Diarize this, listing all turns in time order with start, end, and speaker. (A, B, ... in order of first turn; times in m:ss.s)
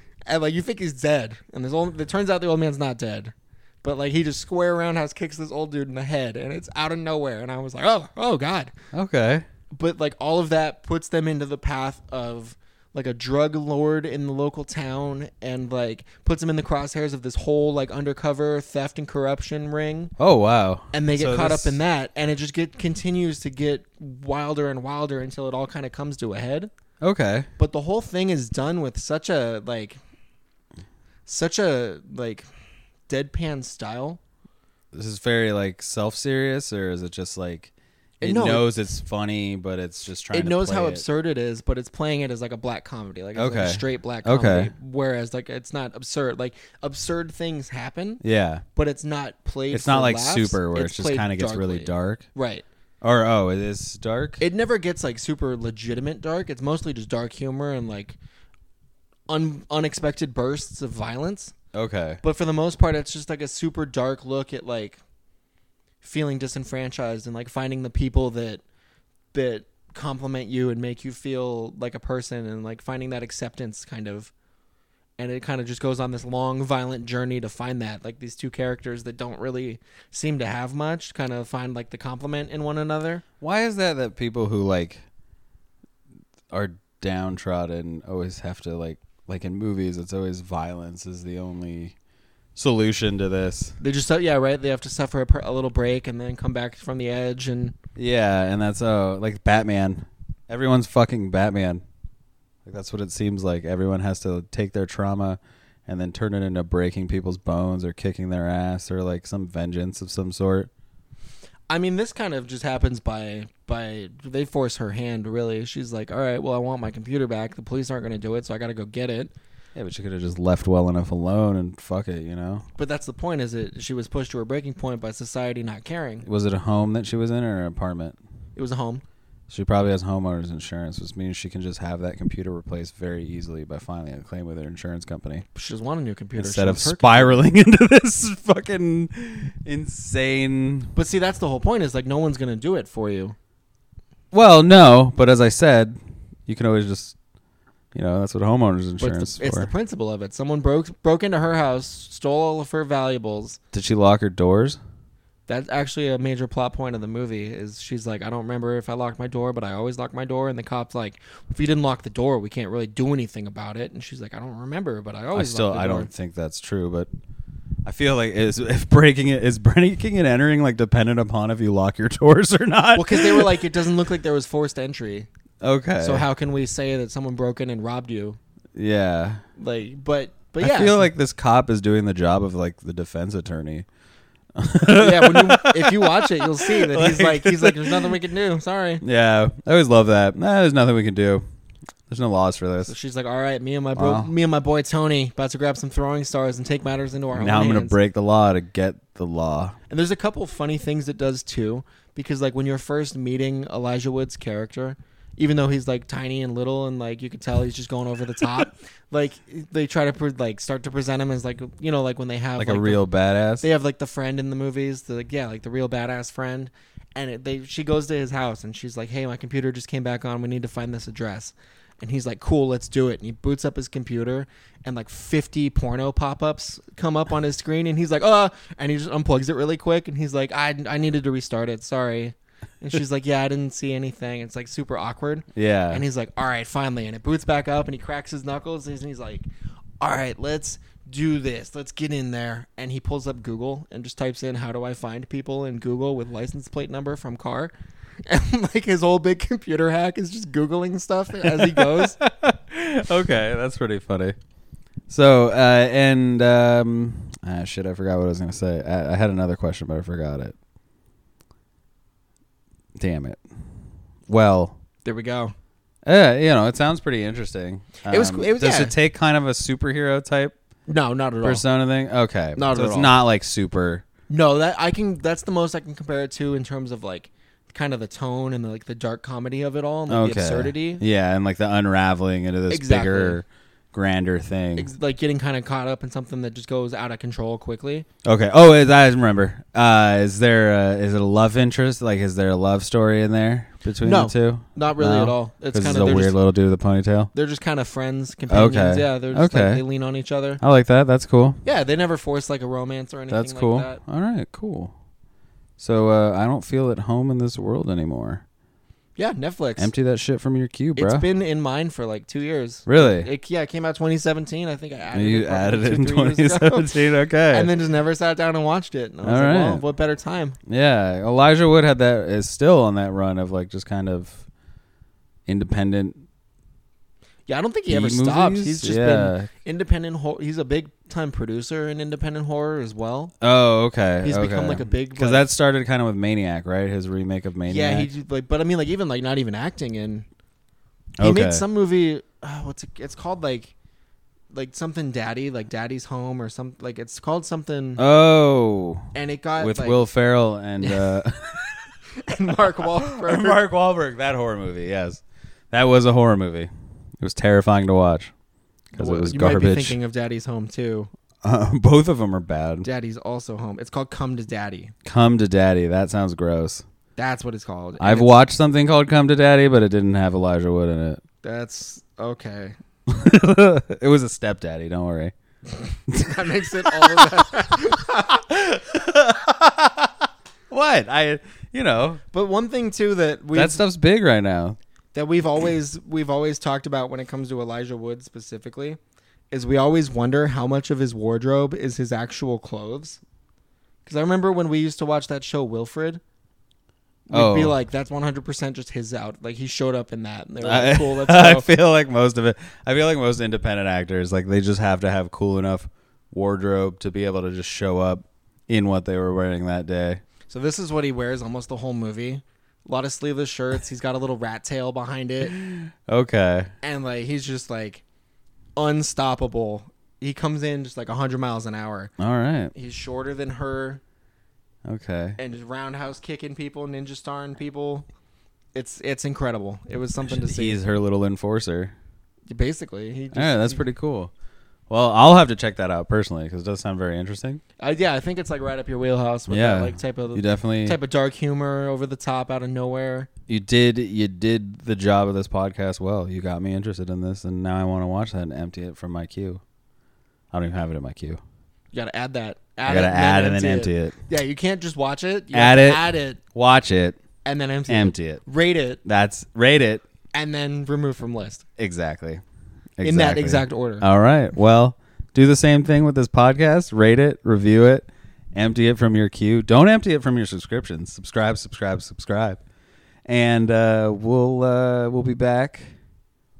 0:00.2-0:08.7 A
0:08.9-0:09.4 B
0:09.7-0:20.1 A
0:20.2-0:21.8 B
0:20.9-0:26.7 A
0:27.0-0:27.5 B
0:27.6-0:30.0 A
0:31.2-0:32.4 A
0:33.1-0:34.2 A
0:34.9-0:41.0 B
0:38.2-0:38.7 A
0:40.3-0:48.2 A
0:43.3-0:44.7 B
0:48.2-0:48.6 B
0:48.7-0:52.6 A
0:49.7-0:52.2 B
0:53.0-0:54.4 B
0:54.4-0:58.2 A
0:59.3-1:01.5 A
1:01.7-1:02.2 B
1:02.2-1:05.0 A
1:06.0-1:08.6 A
1:09.3-1:14.3 A
1:15.2-1:23.2 A
1:23.4-1:25.0 B
1:26.5-1:31.9 B
1:32.6-1:33.8 B
1:33.8-1:37.8 A
1:38.0-1:41.8 B
1:42.6-1:50.7 B
1:51.7-1:59.3 A
1:59.7-2:02.6 B
2:02.7-2:06.2 A
2:06.2-2:08.2 B
2:08.6-2:09.0 A
2:09.5-2:15.4 B
2:15.5-2:17.4 A
2:16.4-2:20.9 B
2:20.9-2:23.4 A
2:24.3-2:27.2 B
2:27.9-2:29.7 B
2:29.0-2:33.6 A
2:33.7-2:34.8 B
2:35.5-2:46.1 A
2:45.3-2:47.1 B
2:47.8-2:53.6 B
2:52.9-2:55.3 A
2:55.6-2:56.2 B
2:56.0-2:58.4 A
2:58.8-2:59.4 B
2:59.6-3:01.1 A
3:00.6-3:03.8 B
3:04.6-3:08.2 B
3:04.9-3:09.0 A
3:09.0-3:11.4 B
3:12.1-3:12.9 B
3:12.8-3:18.0 A
3:14.0-3:14.3 B
3:17.3-3:19.8 B
3:19.9-3:33.0 A
3:32.6-3:33.6 B
3:33.6-3:59.5 A
3:55.5-3:56.0 B
4:00.0-4:07.7 A
4:08.2-4:12.2 A
4:11.4-4:14.4 B
4:15.1-4:20.5 B
4:23.0-4:23.4 B
4:24.3-4:24.8 B
4:25.0-4:25.5 A
4:26.0-4:30.5 B
4:28.0-4:28.9 A
4:30.9-4:31.6 A
4:31.4-4:34.0 B
4:32.6-4:33.2 A
4:34.3-4:41.0 A
4:40.1-4:44.9 B
4:42.7-4:43.4 A
4:44.8-4:48.0 A
4:48.2-4:57.3 B
4:54.0-4:56.4 A
4:57.3-5:00.6 A
4:58.5-4:59.8 B
5:00.6-5:01.6 B
5:01.6-5:04.0 A
5:03.3-5:04.9 B
5:05.8-5:08.4 B
5:09.2-5:09.9 A
5:09.8-5:11.2 B
5:11.0-5:16.9 A
5:12.9-5:13.3 B
5:15.1-5:17.7 B
5:17.5-5:20.6 A
5:19.2-5:19.8 B
5:20.7-5:24.4 B
5:25.5-5:26.2 B
5:27.5-5:33.3 A
5:27.9-5:29.5 B
5:33.4-5:38.1 B
5:34.2-5:35.5 A
5:37.6-5:40.2 A
5:41.2-5:41.6 B
5:41.2-5:43.7 A
5:44.5-5:48.0 A
5:48.0-5:51.6 B
5:49.1-5:50.1 A
5:50.8-5:51.1 A
5:52.2-5:53.6 A
5:52.8-5:58.3 B
5:58.9-6:00.0 B
5:59.0-6:01.1 A
6:01.4-6:02.9 B
6:02.8-6:04.9 A
6:05.0-6:06.8 B
6:07.2-6:08.4 A
6:08.0-6:11.2 B
6:11.4-6:12.7 A
6:13.1-6:15.3 B
6:15.7-6:18.4 A
6:16.1-6:17.4 B
6:18.5-6:22.2 B
6:22.3-6:23.8 A
6:23.5-6:24.8 B
6:25.1-6:29.0 A
6:29.5-6:33.2 A
6:34.0-6:36.2 A
6:37.3-6:41.7 A
6:37.3-6:37.7 B
6:40.6-6:50.2 B
6:50.5-6:55.5 A
6:55.4-6:56.7 B
6:56.8-6:58.0 A
6:58.8-7:02.1 A
7:02.2-7:02.7 B
7:02.7-7:04.0 A
7:04.9-7:05.4 B
7:05.4-7:08.0 A
7:08.7-7:10.8 A
7:10.3-7:11.9 B
7:12.5-7:13.8 A
7:13.3-7:14.3 B
7:14.9-7:17.6 B
7:17.8-7:23.3 A
7:19.5-7:21.0 B
7:23.5-7:29.6 B
7:30.5-7:31.4 B
7:31.9-7:36.4 A
7:32.8-7:34.2 B
7:35.5-7:37.2 B
7:37.4-7:39.0 A
7:37.9-7:38.4 B
7:39.0-7:40.0 B
7:40.3-7:41.6 A
7:41.8-7:42.4 B
7:43.0-7:52.6 B
7:43.0-7:44.0 A
7:53.3-7:56.0 B